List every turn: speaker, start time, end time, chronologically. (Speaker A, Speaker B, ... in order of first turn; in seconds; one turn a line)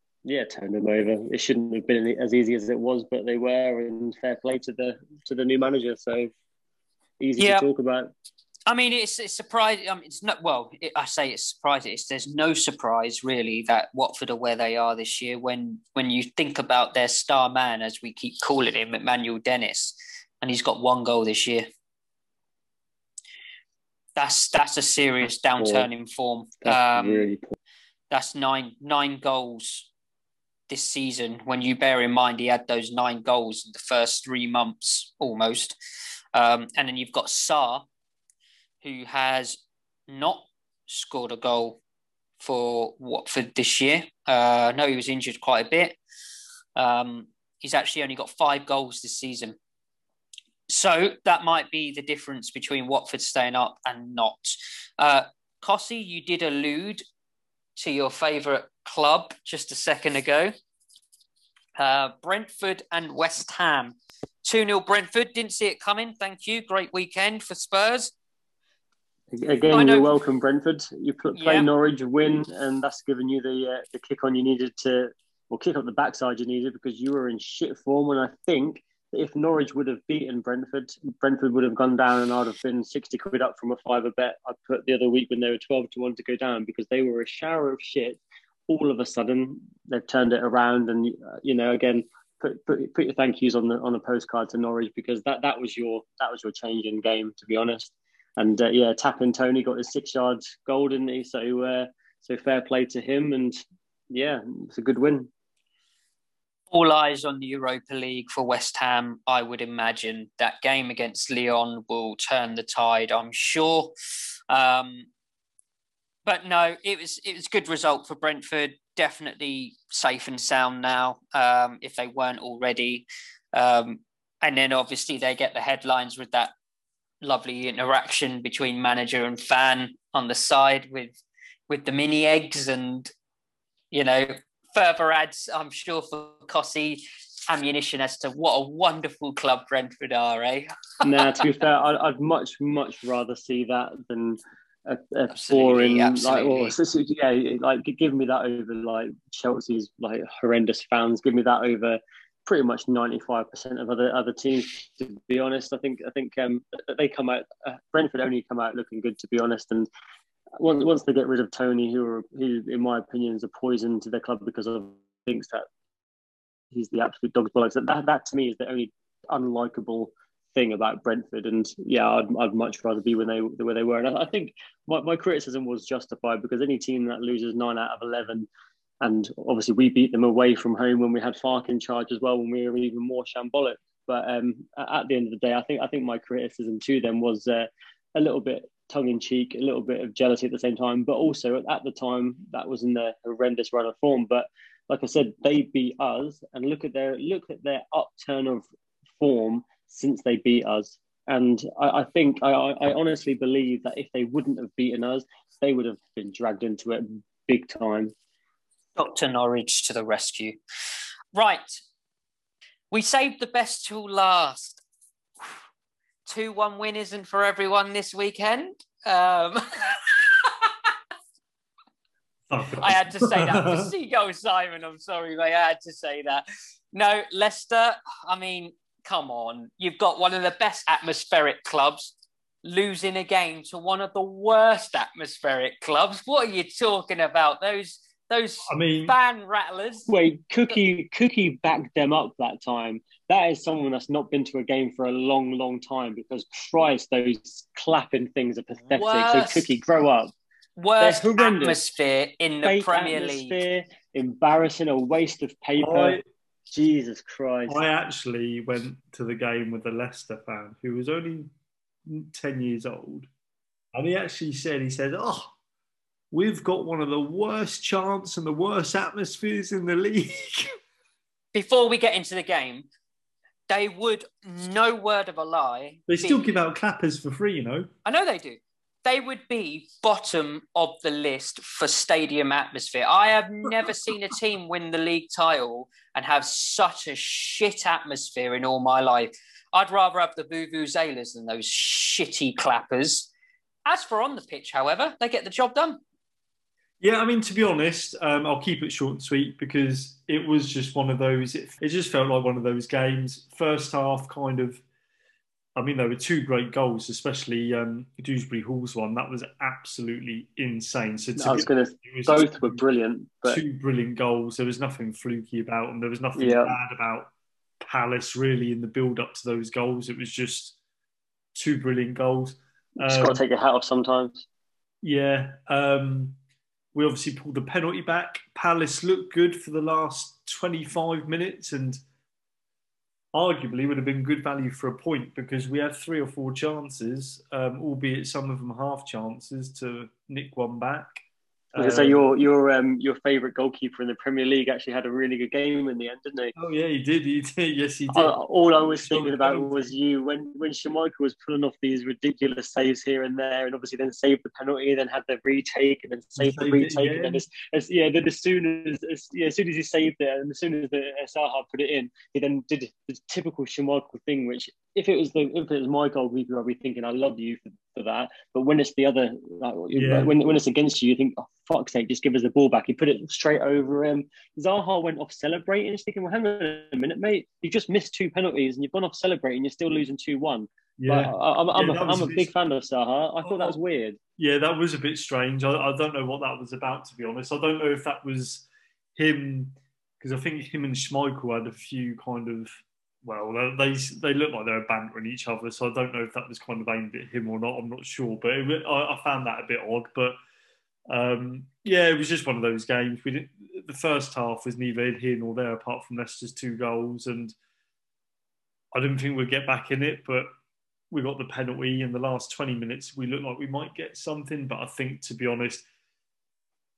Speaker A: 0.2-6.3
Speaker A: 7.2-8.1
Speaker B: 7.4-7.7
Speaker B: 8.7-21.7
Speaker B: 24.1-27.3
Speaker A: 25.6-25.9
Speaker A: 26.6-27.6
Speaker B: 28.1-29.9
Speaker B: 30.7-35.8
Speaker B: 36.3-37.9
Speaker B: 38.8-41.8
Speaker B: 42.4-46.0
Speaker B: 46.8-49.6
Speaker B: 50.7-57.0
Speaker B: 57.8-60.5
Speaker B: 61.8-68.1
Speaker A: 69.3-105.3
Speaker B: 69.7-70.1
Speaker B: 71.3-71.7
Speaker B: 106.7-113.9
Speaker B: 114.5-115.1
Speaker B: 116.3-126.5
Speaker B: 127.2-131.2
Speaker B: 131.7-133.1
Speaker B: 133.9-141.4
Speaker A: 141.0-159.9
Speaker B: 145.3-146.7
Speaker A: 160.6-165.7
Speaker A: 166.7-178.5
Speaker A: 179.0-198.6
Speaker A: 199.2-208.1
Speaker B: 208.9-210.6
Speaker B: 211.3-211.8
Speaker B: 212.9-214.8
Speaker B: 216.3-220.7
Speaker C: 222.5-223.9
Speaker B: 222.7-232.1
Speaker B: 232.6-240.1
Speaker C: 238.7-239.1
Speaker A: 240.1-250.3
Speaker B: 248.9-249.7
Speaker B: 250.8-253.6
Speaker A: 251.0-251.8
Speaker A: 252.6-256.2
Speaker C: 255.8-256.2
Speaker A: 256.7-257.8
Speaker C: 257.7-261.5
Speaker C: 262.1-263.3
Speaker C: 263.9-265.5
Speaker C: 266.3-270.8
Speaker B: 271.5-272.9
Speaker B: 273.7-276.4
Speaker C: 276.1-277.9
Speaker B: 278.1-293.3
Speaker B: 293.9-296.0
Speaker C: 297.0-304.8
Speaker C: 305.8-312.8
Speaker A: 311.4-313.6
Speaker C: 313.4-320.8
Speaker A: 316.4-316.7
Speaker C: 321.6-323.4
Speaker A: 323.0-324.4
Speaker C: 325.0-326.4
Speaker C: 326.9-332.0
Speaker C: 333.3-342.3
Speaker A: 341.8-346.6
Speaker C: 346.6-348.4
Speaker A: 348.1-384.2
Speaker C: 349.0-349.9
Speaker C: 356.4-357.4
Speaker C: 369.9-370.4
Speaker C: 381.0-382.5
Speaker C: 383.4-383.8
Speaker C: 384.4-400.4
Speaker C: 401.1-407.6
Speaker C: 408.9-410.5
Speaker C: 411.1-415.9